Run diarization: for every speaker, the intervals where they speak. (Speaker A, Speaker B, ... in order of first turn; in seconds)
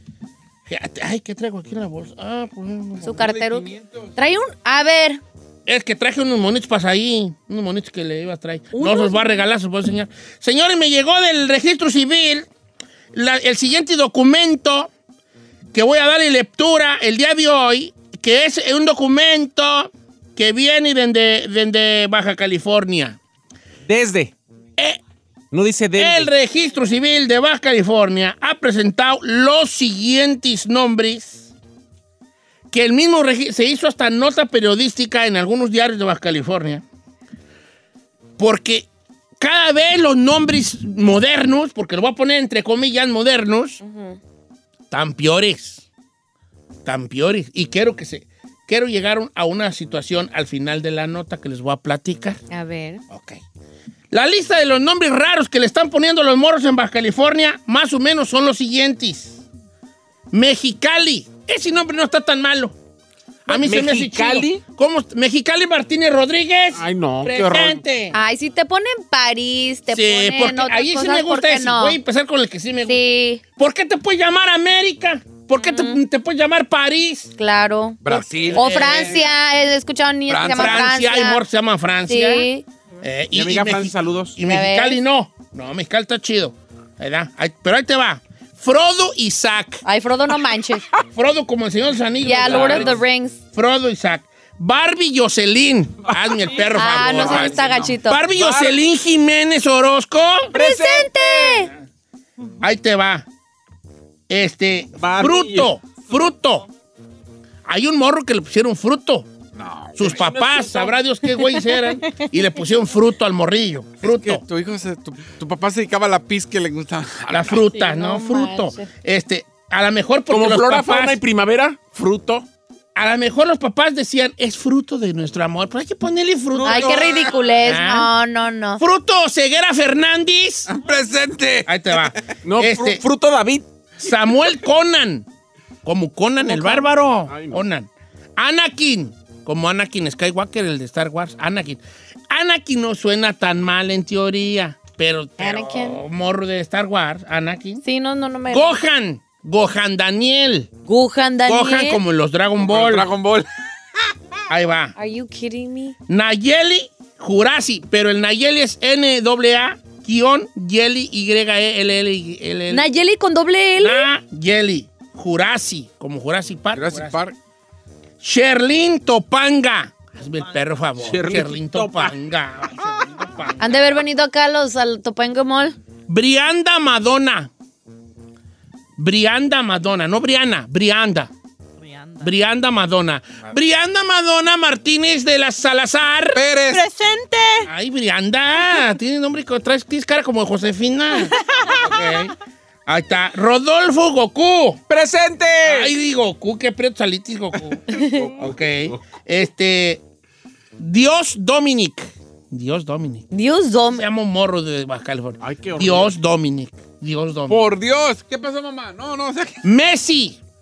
Speaker A: 0.7-3.2, 5.7-12.5, 13.1-14.9, 15.7-23.2, 25.9-31.5, 32.7-36.8, 38.4-38.9, 39.4-43.8, 44.9-45.8, 46.8-52.4, 53.1-53.4, 54.1-59.4, 60.3-62.7, 63.5-68.2, 69.9-73.0, 73.6-77.3, 78.5-79.3, 80.5-82.5, 83.0-89.8, 91.1-93.0, 93.5-100.5, 102.6-103.2, 104.3-106.7, 107.6-109.3, 110.0-114.4, 117.3-121.2, 122.9-128.1, 128.8-130.7, 131.7-133.0, 134.0-135.2, 135.8-147.8, 148.5-150.7, 151.5-153.1, 154.5-154.9, 156.1-162.9, 163.8-167.2, 168.2-173.8, 176.1-177.5, 179.0-181.3, 182.2-186.4, 187.6-192.3, 192.9-194.8, 195.6-200.0, 200.8-203.3, 203.9-207.6, 209.6-210.4
Speaker B: 3.0-5.2, 8.7-9.4, 43.8-44.2, 52.5-53.0, 68.1-72.0, 72.9-73.4, 75.6-76.0, 77.4-81.4, 82.0-82.6, 84.4-85.0, 89.8-90.8, 92.2-93.4, 96.7-98.2, 100.5-101.7, 117.7-118.8, 126.6-128.8, 136.4-136.8, 145.4-146.0, 147.8-148.8, 150.8-152.0, 155.0-155.9, 162.7-164.1, 173.6-175.8, 203.3-204.0
Speaker C: 3.2-4.1, 78.0-79.1, 80.3-80.9, 96.9-98.0, 109.5-110.2, 114.0-117.6, 130.7-132.0, 152.6-153.5, 166.7-167.3, 186.3-186.9, 207.5-209.6
Speaker D: 23.9-24.3, 25.5-26.3, 63.5-64.6, 66.7-67.8, 83.3-84.3, 92.4-92.9, 96.0-96.6, 98.3-98.7, 100.5-101.7, 105.0-105.7, 110.0-110.9, 120.3-122.4, 126.5-127.3, 132.4-133.7, 137.3-137.6, 171.0-172.1, 194.9-195.9, 198.2-199.0, 205.4-206.1
Speaker E: 170.3-170.7, 181.8-182.3, 186.7-187.7, 191.2-191.8